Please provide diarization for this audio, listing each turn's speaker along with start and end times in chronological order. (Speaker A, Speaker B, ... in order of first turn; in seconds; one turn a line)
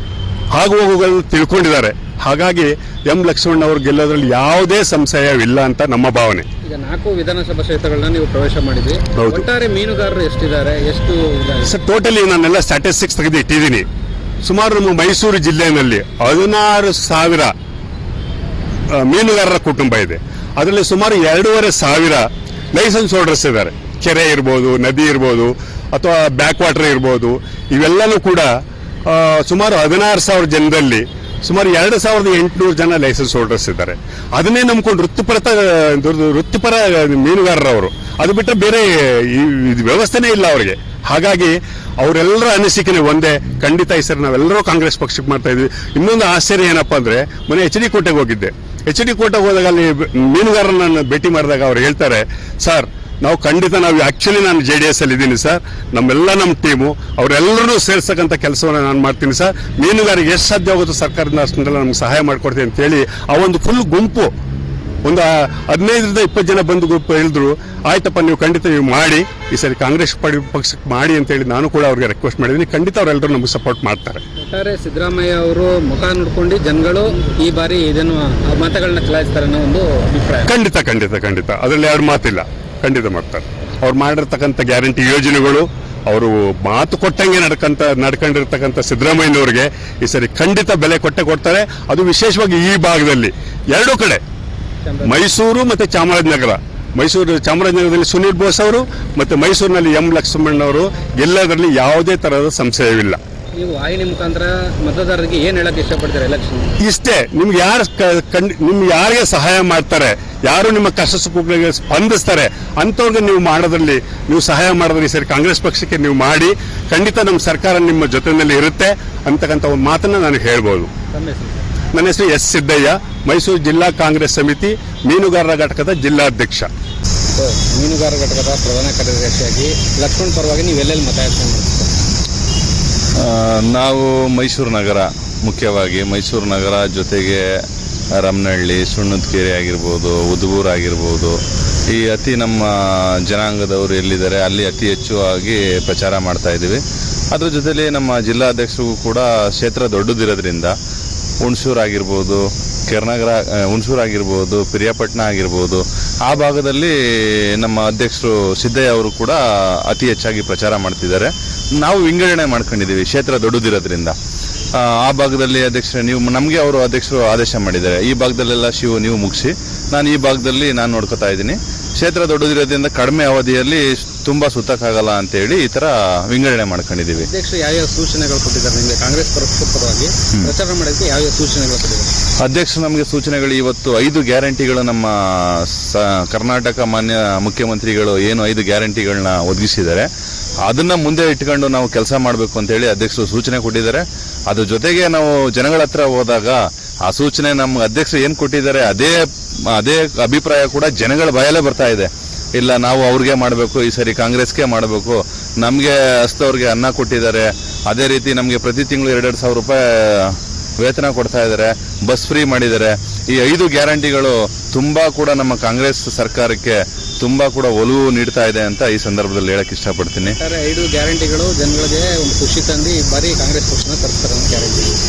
Speaker A: 0.5-6.5
Speaker B: 6.6-11.7
Speaker A: 9.2-9.4
Speaker A: 11.6-13.8
Speaker A: 14.4-17.5
Speaker A: 18.9-28.5
Speaker A: 29.1-64.3
Speaker A: 65.0-74.2
Speaker B: 74.4-80.5
Speaker A: 80.5-94.2
Speaker B: 94.8-95.2
Speaker A: 95.0-103.2
Speaker B: 103.5-106.7
Speaker A: 106.8-120.9
Speaker B: 121.1-121.6
Speaker A: 121.9-126.7
Speaker B: 127.3-131.9
Speaker C: 133.2-137.4
Speaker C: 138.2-141.4
Speaker C: 141.9-150.7
Speaker C: 151.4-156.9
Speaker C: 157.6-164.1
Speaker C: 164.8-177.3
Speaker B: 177.2-182.1
Speaker C: 182.4-185.1
Speaker C: 185.7-190.1
Speaker C: 190.6-199.2
Speaker C: 199.7-220.3
Speaker B: 220.3-224.9